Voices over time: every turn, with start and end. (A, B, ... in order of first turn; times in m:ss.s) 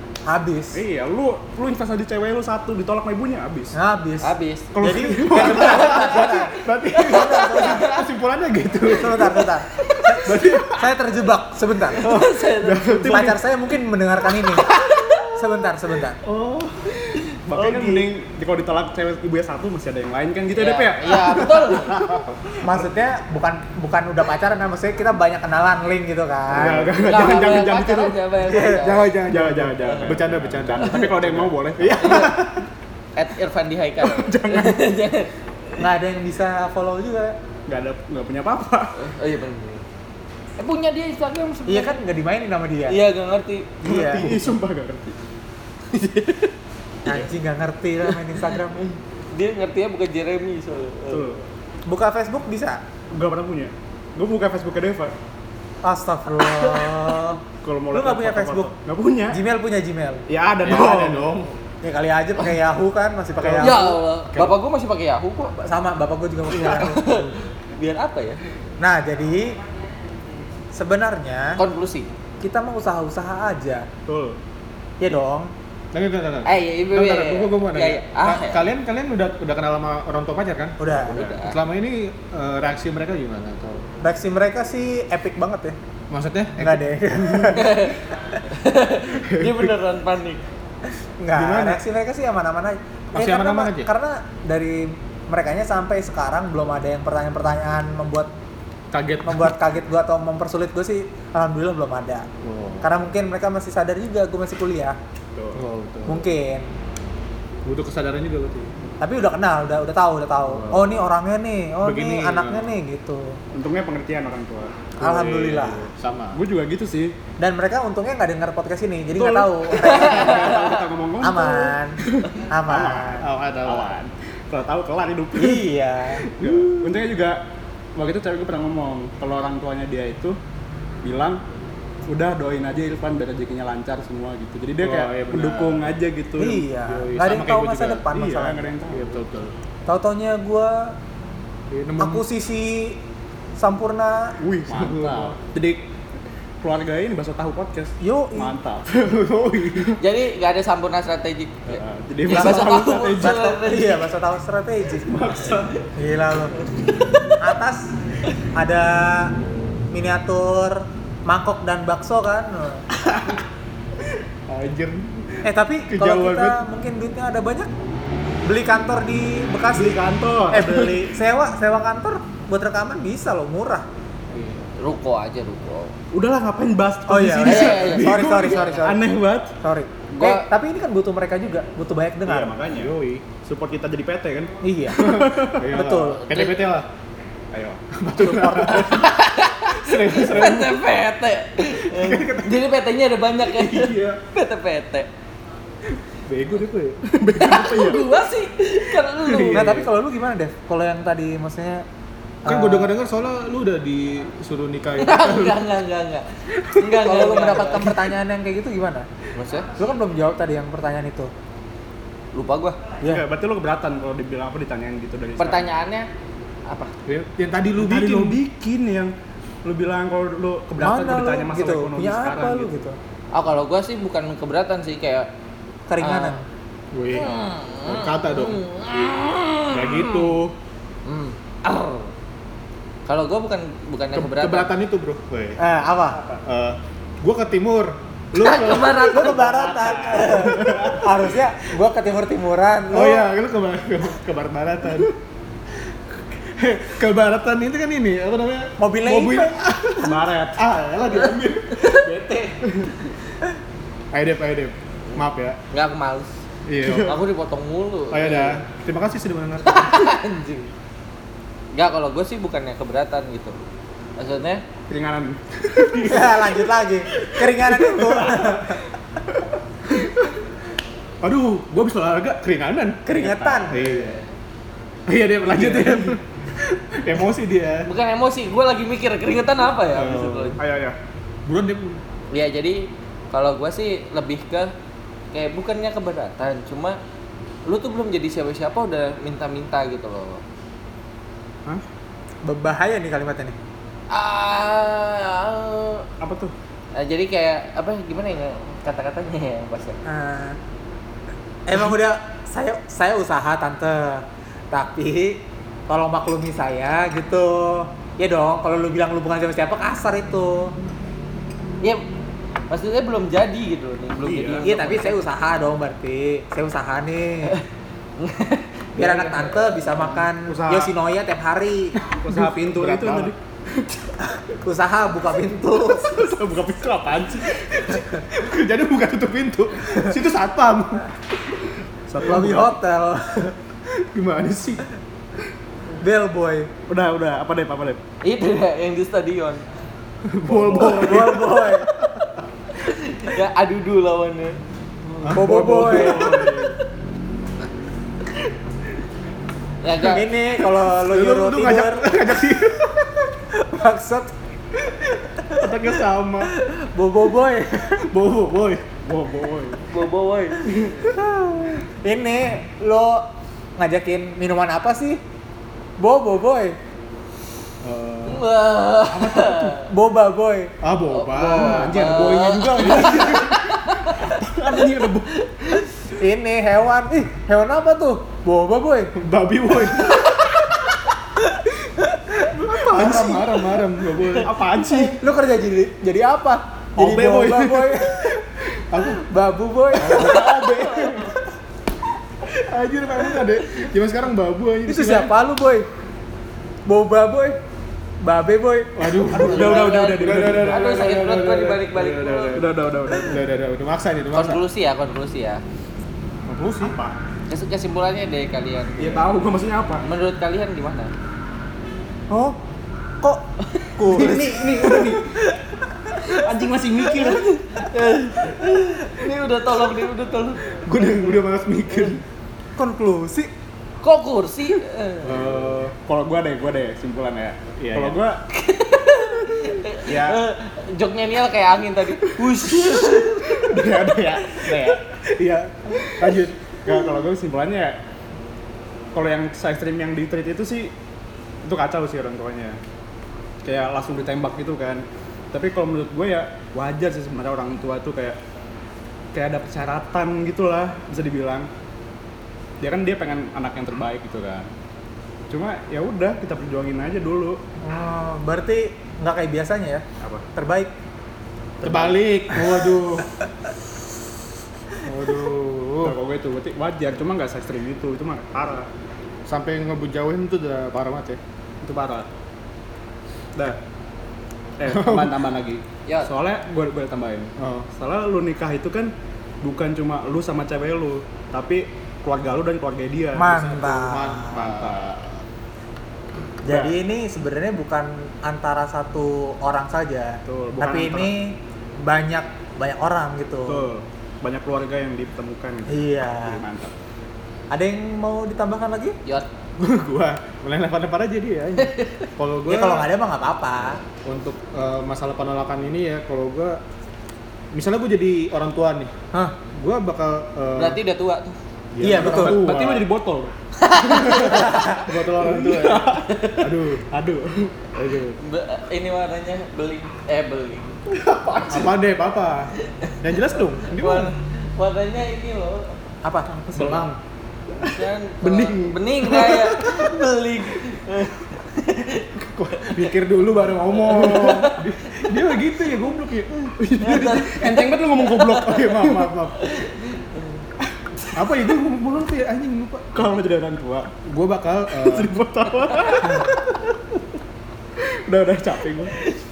0:00.2-0:00.8 A
0:00.7-0:03.8 B
0:03.7-0:08.0 A
0:04.2-0:04.7 C
0:04.8-0:06.4 B
0:05.3-0:09.2 D
0:05.4-0:08.0 C
0:08.8-0:09.4 B
0:08.9-0:12.0 A
0:10.2-0:10.8 B
0:11.9-0:13.2 C
0:12.0-0:13.4 B
0:13.1-0:14.7 A
0:14.5-0:15.4 C
0:15.2-0:16.2 A
0:16.2-0:22.5 B
0:17.6-0:18.0 C
0:20.5-0:22.0 C
0:22.6-0:26.8 A
0:26.5-0:28.2 B
0:26.5-0:27.0 D
0:27.0-0:29.1 C
0:28.4-0:29.0 A
0:28.8-0:32.5 B
0:29.0-0:32.5 D
0:29.8-0:30.1 C
0:32.0-0:32.4 C
0:33.2-0:35.8 C
0:34.0-0:34.8 B
0:35.8-0:37.4 A
0:37.7-0:38.9 B
0:39.0-0:39.8 C
0:40.6-0:42.0 C
0:41.7-0:43.0 A
0:42.9-0:43.8 C
0:43.8-0:44.5 A
0:43.8-0:45.2 B
0:45.9-0:46.5 C
0:47.0-0:48.9 A
0:48.1-0:48.5 C
0:49.3-0:51.4 C
0:51.1-0:51.4 B
0:51.8-0:52.8 A
0:53.1-0:55.1 B
0:55.8-0:57.4 A
0:56.4-0:57.2 C
0:57.6-0:59.4 B
0:57.9-0:58.7 A
0:59.3-1:00.2 A
1:00.3-1:01.4 B
1:00.6-1:01.5 D
1:01.8-1:03.8 A
1:03.4-1:04.5 B
1:03.6-1:05.6 C
1:05.6-1:07.3 A
1:06.5-1:08.6 C
1:08.8-1:09.6 A
1:10.7-1:11.6 A
1:11.6-1:12.1 C
1:12.4-1:13.9 A
1:14.1-1:14.4 B
1:15.0-1:15.5 A
1:15.9-1:23.8 D
1:16.4-1:18.6 C
1:20.8-1:21.2 A
1:21.0-1:21.6 C
1:21.1-1:21.3 B
1:24.0-1:25.8 A
1:26.1-1:27.4 D
1:26.6-1:27.9 A
1:27.5-1:30.4 C
1:31.2-1:38.3 A
1:31.3-1:31.8 D
1:33.1-1:33.9 D
1:38.9-1:39.6 D
1:39.2-1:42.3 A
1:42.4-1:42.9 D
1:42.8-1:45.0 A
1:45.3-1:45.6 B
1:45.5-1:46.3 D
1:46.1-1:46.7 A
1:47.6-1:48.9 D
1:49.0-1:53.4 A
1:50.5-1:51.1 D
1:51.8-1:52.8 D
1:53.5-1:55.7 B
1:55.0-1:55.9 A
1:55.0-1:56.4 D
1:56.3-1:57.1 B
1:57.4-2:00.6 A
1:59.1-2:05.7 B
1:59.7-2:00.8 C
2:01.2-2:03.3 A
2:03.1-2:03.9 D
2:05.4-2:06.4 A
2:06.3-2:07.4 B
2:06.4-2:06.7 D
2:08.0-2:10.4 B
2:11.0-2:11.4 B
2:12.1-2:16.7 B
2:14.8-2:16.0 D
2:16.4-2:18.7 A
2:16.8-2:18.0 D
2:17.2-2:19.2 B
2:18.9-2:19.5 D
2:19.9-2:21.0 A
2:21.7-2:22.2 D
2:22.0-2:23.0 A
2:23.6-2:24.4 A
2:24.4-2:25.4 D
2:24.6-2:25.8 B
2:26.6-2:30.0 B
2:28.0-2:28.5 A
2:30.0-2:34.0 C
2:31.7-2:33.4 B
2:33.2-2:35.1 A
2:35.1-2:35.8 B
2:36.0-2:36.5 A
2:37.0-2:37.4 C
2:37.4-2:39.3 A
2:39.9-2:42.8 A
2:44.5-2:45.1 D
2:45.4-2:47.7 A
2:45.9-2:46.6 D
2:48.4-2:50.0 A
2:49.7-2:51.1 B
2:50.5-2:53.8 A
2:54.3-2:54.6 D
2:54.8-2:55.9 C
2:56.1-2:59.5 B
2:57.1-2:59.1 A
2:57.4-2:58.6 C
2:59.6-3:02.6 A
3:00.1-3:00.4 C
3:02.2-3:05.6 B
3:02.7-3:03.2 D
3:04.6-3:06.5 A
3:05.5-3:06.9 D
3:07.5-3:09.0 B
3:07.9-3:09.0 D
3:08.6-3:08.8 A
3:08.8-3:15.1 C
3:09.9-3:10.7 D
3:09.9-3:10.6 B
3:11.9-3:12.5 D
3:13.6-3:14.2 B
3:13.8-3:14.1 D
3:16.3-3:18.1 B
3:17.4-3:19.8 C
3:19.2-3:19.9 B
3:19.5-3:21.8 A
3:22.4-3:22.9 A
3:22.4-3:25.6 D
3:25.0-3:28.0 C
3:26.9-3:29.1 A
3:29.3-3:29.7 C
3:29.8-3:31.3 A
3:32.3-3:32.8 C
3:33.0-3:35.7 B
3:35.4-3:36.1 C
3:36.7-3:36.9 C
3:37.0-3:38.4 D
3:37.8-3:39.1 B
3:39.6-3:42.7 B
3:40.8-3:43.0 A
3:43.3-3:45.3 C
3:45.9-3:46.4 A
3:46.0-3:46.4 C
3:46.9-3:48.6 D
3:47.1-3:50.3 C
3:49.7-3:50.5 D
3:51.0-3:52.1 C
3:53.1-3:54.7 C
3:54.1-3:55.6 D
3:55.6-3:56.2 A
3:56.2-4:01.0 D
3:58.3-3:59.4 C
3:59.1-4:03.3 A
3:59.3-4:01.1 B
4:02.9-4:05.1 D
4:06.5-4:12.0 D
4:08.8-4:09.6 A
4:10.0-4:10.6 B
4:11.1-4:12.6 C
4:14.1-4:15.6 D
4:15.7-4:16.3 C
4:16.7-4:17.2 D
4:16.8-4:17.1 B
4:17.0-4:18.6 C
4:18.1-4:20.0 D
4:19.6-4:20.7 C
4:21.7-4:23.6 C
4:24.2-4:24.6 C
4:24.9-4:26.7 B
4:26.0-4:28.8 A
4:27.2-4:28.7 B
4:31.2-4:33.0 D
4:31.5-4:32.3 B
4:33.0-4:33.8 A
4:33.0-4:34.1 B
4:33.7-4:34.2 D
4:35.1-4:36.2 D
4:35.4-4:36.2 B
4:36.7-4:37.9 D
4:37.9-4:40.6 C
4:39.9-4:40.6 D
4:40.6-4:41.0 B
4:41.4-4:42.0 D
4:42.3-4:44.7 C
4:45.3-4:47.0 C
4:47.6-4:50.4 C
4:52.4-4:53.6 A
4:54.1-4:56.0 C
4:56.2-4:56.5 B
4:56.9-5:00.0 C
5:00.0-5:00.6 A
5:01.7-5:10.7 A
5:12.7-5:15.2 C
5:14.2-5:14.7 B
5:14.6-5:17.6 A
5:18.2-5:20.1 C
5:19.0-5:22.0 A
5:20.5-5:20.9 B
5:22.2-5:23.9 B
5:22.2-5:23.3 D
5:24.4-5:26.1 A
5:26.0-5:28.1 B
5:28.4-5:31.0 D
5:32.1-5:32.7 B
5:32.2-5:33.6 A
5:34.1-5:34.8 B
5:36.0-5:36.7 A
5:36.9-5:38.0 B
5:38.2-5:39.6 C
5:40.3-5:41.7 B
5:40.4-5:41.6 D
5:40.7-5:41.9 A
5:42.7-5:44.6 C
5:45.2-5:46.6 D
5:45.2-5:46.7 B
5:45.3-5:46.3 A
5:46.2-5:46.7 C
5:49.8-5:50.3 C
5:50.0-5:52.2 A
5:50.9-5:53.2 D
5:53.5-5:54.3 A
5:54.8-5:55.7 A
5:55.6-5:56.5 D
5:56.6-5:58.0 A
5:58.1-5:59.0 D
5:58.8-5:59.8 B
5:59.9-6:00.7 C
6:01.1-6:03.2 A
6:03.8-6:05.2 A
6:06.0-6:06.8 A
6:07.8-6:08.4 D
6:08.3-6:09.8 C
6:09.1-6:09.7 D
6:09.9-6:10.7 A
6:10.8-6:13.5 D
6:11.1-6:14.4 C
6:11.5-6:13.6 B
6:12.8-6:13.4 A
6:14.2-6:15.2 B
6:15.4-6:15.8 C
6:16.2-6:19.1 A
6:19.2-6:20.4 B
6:19.6-6:20.2 D
6:22.3-6:23.6 A
6:22.5-6:25.1 D
6:22.9-6:25.2 B
6:25.2-6:28.4 A
6:27.0-6:28.0 D
6:27.0-6:27.4 B
6:28.9-6:29.2 D
6:29.0-6:30.9 A
6:30.0-6:31.3 B
6:30.0-6:31.3 D
6:32.4-6:35.3 D
6:34.8-6:35.9 A
6:36.8-6:37.6 A
6:38.2-6:39.2 A
6:39.0-6:44.6 D
6:39.3-6:42.6 C
6:39.3-6:41.3 B
6:42.5-6:43.4 B
6:44.3-6:45.6 C
6:46.5-6:47.0 D
6:47.5-6:49.2 C
6:49.0-6:50.1 B
6:50.0-6:51.1 C
6:52.3-6:52.6 A
6:54.0-6:55.2 A
6:54.0-6:55.3 B
6:56.2-6:57.5 B
6:57.1-7:01.1 C
7:00.9-7:02.2 B
7:00.9-7:01.4 D
7:02.8-7:03.5 A
7:04.0-7:05.4 C
7:05.2-7:08.4 B
7:05.3-7:05.7 D
7:07.8-7:08.2 D
7:08.5-7:14.9 C
7:10.0-7:10.4 B
7:12.2-7:18.0 B
7:19.1-7:20.9 B
7:21.6-7:22.8 B
7:23.6-7:28.4 B
7:29.3-7:31.7 B
7:32.8-7:34.7 B
7:35.5-7:37.6 B
7:37.8-7:40.9 A
7:41.8-7:42.2 B
7:41.8-7:43.3 D
7:45.0-7:46.2 D
7:46.0-7:48.9 B
7:49.4-7:51.4 D
7:51.8-7:52.3 B
7:54.8-8:03.7 B
7:54.9-7:55.3 D
7:57.6-7:57.9 D
8:03.4-8:04.7 A
8:03.5-8:05.4 D
8:04.5-8:05.0 B
8:06.6-8:13.9 A
8:10.4-8:11.3 B
8:13.6-8:16.9 B
8:15.9-8:16.6 A
8:17.7-8:19.2 A
8:19.8-8:23.1 D
8:21.8-8:22.3 C
8:22.7-8:24.0 A
8:24.2-8:26.8 D
8:27.7-8:29.1 D
8:29.7-8:31.0 D
8:30.8-8:31.6 C
8:31.9-8:33.1 D
8:32.0-8:32.6 A
8:32.0-8:33.5 B
8:33.8-8:35.0 C
8:34.1-8:36.5 B
8:34.4-8:37.0 D
8:36.2-8:36.6 C
8:37.1-8:37.9 B
8:37.9-8:38.4 D
8:38.4-8:41.0 C
8:41.1-8:41.9 B
8:41.7-8:44.3 D
8:42.8-8:45.9 C
8:46.2-8:47.1 A
8:46.7-8:47.2 D
8:46.7-8:47.0 B
8:47.8-8:52.9 C
8:48.4-8:48.9 B
8:49.3-8:50.0 D
8:52.4-8:56.5 D
8:54.0-8:55.3 C
8:54.0-8:54.8 B
8:56.8-8:59.5 B
8:57.0-8:59.0 C
8:58.4-8:59.5 D
8:59.6-9:00.5 C
9:01.3-9:03.1 D
9:03.1-9:04.2 B
9:04.2-9:05.3 D
9:04.9-9:06.6 B
9:08.0-9:09.1 B